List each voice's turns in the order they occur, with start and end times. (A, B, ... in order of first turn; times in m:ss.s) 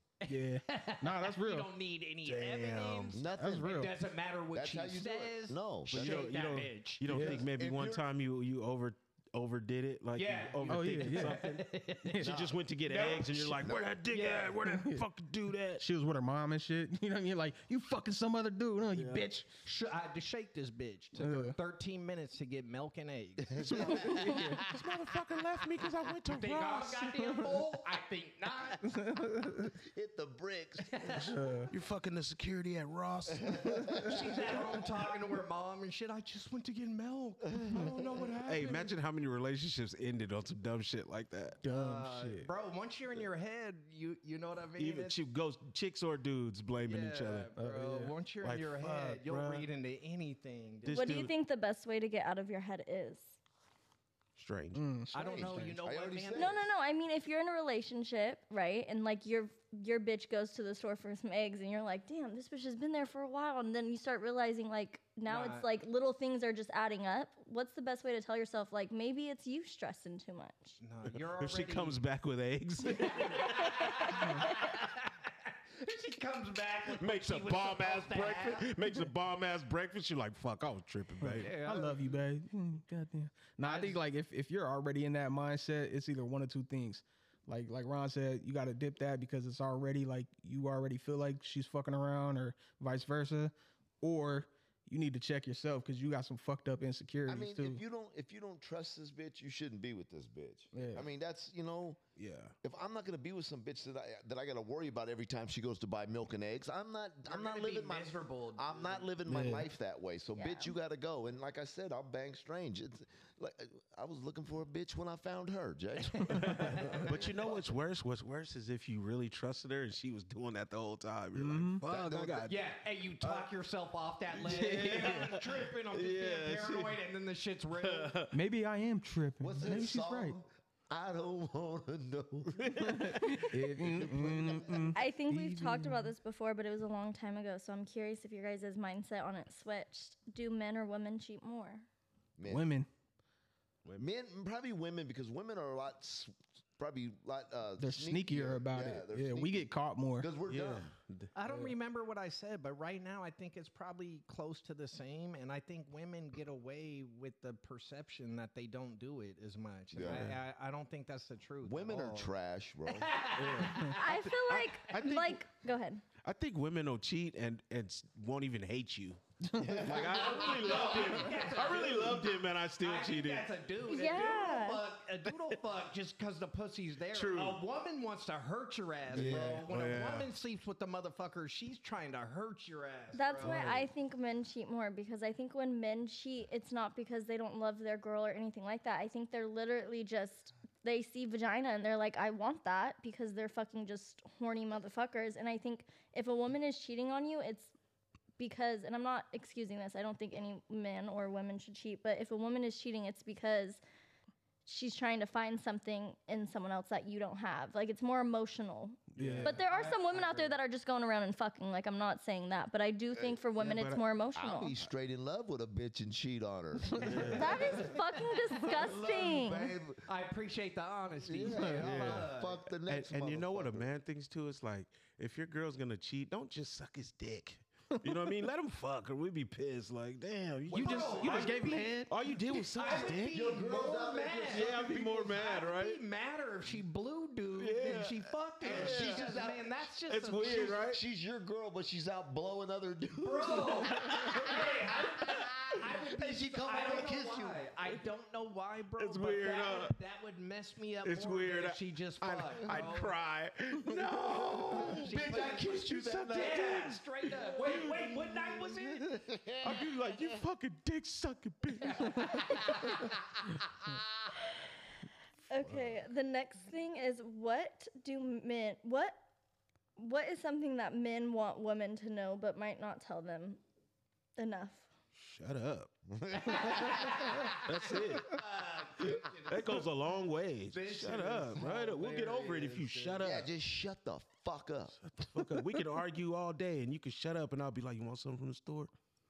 0:00.2-0:07.0 A
0:00.3-0:01.7 B
0:02.2-0:03.2 C
0:03.1-0:03.8 D
0:03.4-0:03.9 B
0:04.5-0:06.3 D
0:05.9-0:11.7 C
0:07.1-0:07.4 B
0:07.1-0:08.0 D
0:10.1-0:12.3 A
0:10.7-0:12.3 B
0:12.2-0:15.8 C
0:12.2-0:12.6 D
0:12.8-0:14.6 A
0:13.5-0:13.9 D
0:14.7-0:15.0 B
0:15.8-0:19.5 B
0:18.9-0:19.3 C
0:19.6-0:24.2 A
0:21.2-0:21.5 B
0:23.5-0:24.3 D
0:23.6-0:27.4 C
0:23.9-0:24.6 B
0:26.3-0:29.0 A
0:27.2-0:27.5 B
0:28.8-0:29.7 B
0:29.7-0:31.2 D
0:30.9-0:31.3 A
0:31.1-0:33.8 C
0:31.3-0:31.7 B
0:33.3-0:34.9 D
0:33.6-0:34.1 B
0:34.0-0:38.9 A
0:37.5-0:38.3 D
0:38.4-0:41.6 C
0:41.6-0:42.5 B
0:41.7-0:45.2 A
0:44.8-0:47.5 C
0:46.8-0:51.1 A
0:47.6-0:48.1 B
0:48.4-0:49.7 C
0:50.8-0:51.3 C
0:50.9-0:53.3 E
0:54.4-0:54.8 C
0:54.7-0:55.5 B
0:55.1-0:56.6 A
0:55.1-0:56.7 D
0:56.3-1:10.8 E
1:05.2-1:05.7 A
1:10.8-1:12.0 A
1:11.4-1:14.1 C
1:12.8-1:18.8 A
1:13.4-1:14.3 E
1:14.1-1:14.5 B
1:16.9-1:21.5 C
1:21.2-1:37.8 B
1:21.4-1:22.2 A
1:23.6-1:24.0 A
1:37.3-1:42.0 D
1:40.7-1:41.1 B
1:42.2-1:42.5 C
1:42.6-1:57.6 D
1:47.2-1:49.1 A
1:49.2-1:49.7 B
1:50.4-1:50.7 A
1:56.1-1:57.5 A
1:56.3-2:02.5 C
2:01.3-2:01.8 B
2:01.8-2:02.5 D
2:02.4-2:08.2 A
2:04.3-2:07.0 C
2:04.5-2:05.4 B
2:07.8-2:08.4 C
2:08.3-2:10.4 B
2:09.4-2:15.0 D
2:12.6-2:14.1 C
2:12.8-2:16.1 B
2:14.9-2:21.9 E
2:22.4-2:22.7 D
2:22.4-2:22.9 B
2:24.0-2:30.9 D
2:27.8-2:30.3 B
2:30.5-2:31.7 C
2:31.4-2:42.3 A
2:39.9-2:40.3 D
2:40.0-2:40.4 C
2:41.6-2:43.2 D
2:42.8-2:44.3 A
2:43.3-2:45.4 C
2:44.0-2:46.0 E
2:46.2-2:53.5 C
2:49.5-2:49.8 B
2:49.6-2:51.2 D
2:49.8-3:03.6 A
2:53.8-2:54.9 E
2:57.1-2:57.6 C
2:59.1-3:00.3 C
2:59.1-2:59.7 D
3:03.1-3:17.7 E
3:03.4-3:03.9 C
3:18.4-3:23.8 E
3:24.6-3:34.7 E
3:29.2-3:29.5 B
3:29.2-3:29.6 C
3:29.4-3:30.6 A
3:33.1-3:33.4 D
3:33.6-3:34.0 C
3:34.3-3:37.8 D
3:37.0-3:37.8 C
3:37.0-3:38.1 A
3:37.3-3:39.7 E
3:38.6-3:40.0 D
3:40.0-3:42.6 A
3:41.2-3:43.9 D
3:41.5-3:41.8 B
3:41.8-3:42.3 C
3:42.9-3:53.6 C
3:47.9-3:48.3 B
3:50.7-4:00.8 A
3:50.7-3:52.2 B
3:50.9-3:51.3 D
3:52.8-3:55.4 D
3:54.5-3:56.0 C
3:57.6-3:59.3 C
3:58.6-3:59.6 D
4:00.1-4:01.0 C
4:00.8-4:07.6 D
4:03.2-4:13.2 A
4:03.9-4:04.5 C
4:09.0-4:09.9 C
4:11.0-4:18.4 C
4:13.9-4:19.2 A
4:14.2-4:16.8 D
4:17.7-4:20.4 D
4:19.6-4:22.6 C
4:21.8-4:23.1 A
4:22.7-4:23.1 D
4:25.5-4:29.2 E
4:30.0-4:33.6 E
4:34.4-4:34.9 E
4:35.1-4:35.9 C
4:36.1-4:37.5 D
4:36.5-4:39.9 A
4:37.4-4:38.5 C
4:39.0-4:43.5 C
4:40.7-4:43.2 A
4:43.2-4:45.0 D
4:45.0-4:48.9 C